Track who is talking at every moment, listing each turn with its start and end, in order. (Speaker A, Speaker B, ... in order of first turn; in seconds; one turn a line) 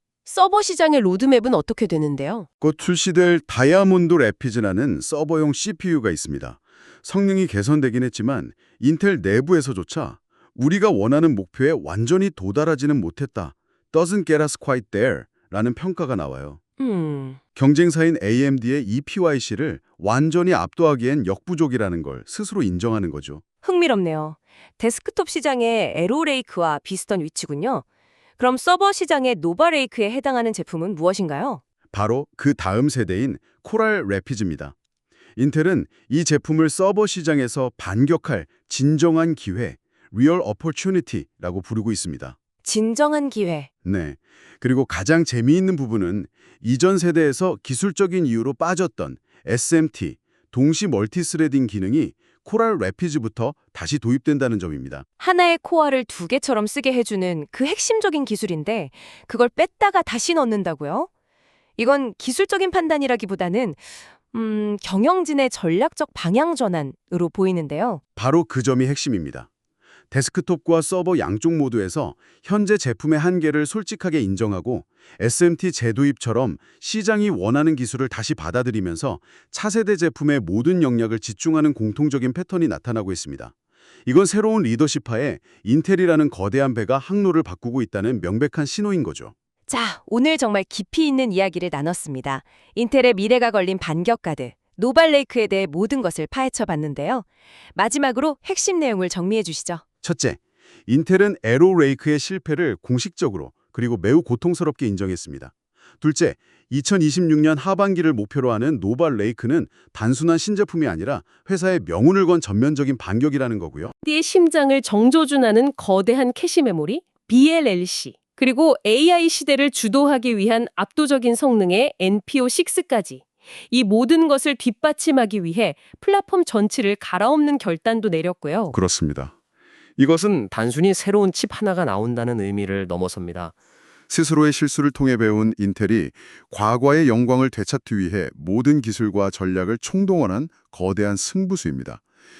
Speaker A: 0.3-2.5
Speaker B: 2.6-16.6
Speaker A: 16.8-17.4
Speaker B: 17.6-23.4
Speaker A: 23.6-27.9
Speaker A: 28.4-31.6
Speaker B: 31.9-34.8
Speaker B: 35.4-42.4
Speaker A: 42.6-43.7
Speaker B: 43.9-55.0
Speaker A: 55.2-61.1
Speaker A: 61.8-63.8
Speaker A: 64.3-68.0
Speaker B: 68.2-69.5
Speaker B: 70.1-83.5
Speaker B: 84.1-89.3
Speaker A: 89.7-99.8
Speaker B: 100.0-113.9
Speaker A: 114.0-128.8
Speaker B: 128.7-129.3
Speaker C: 130.0-133.5
Speaker B: 134.1-142.0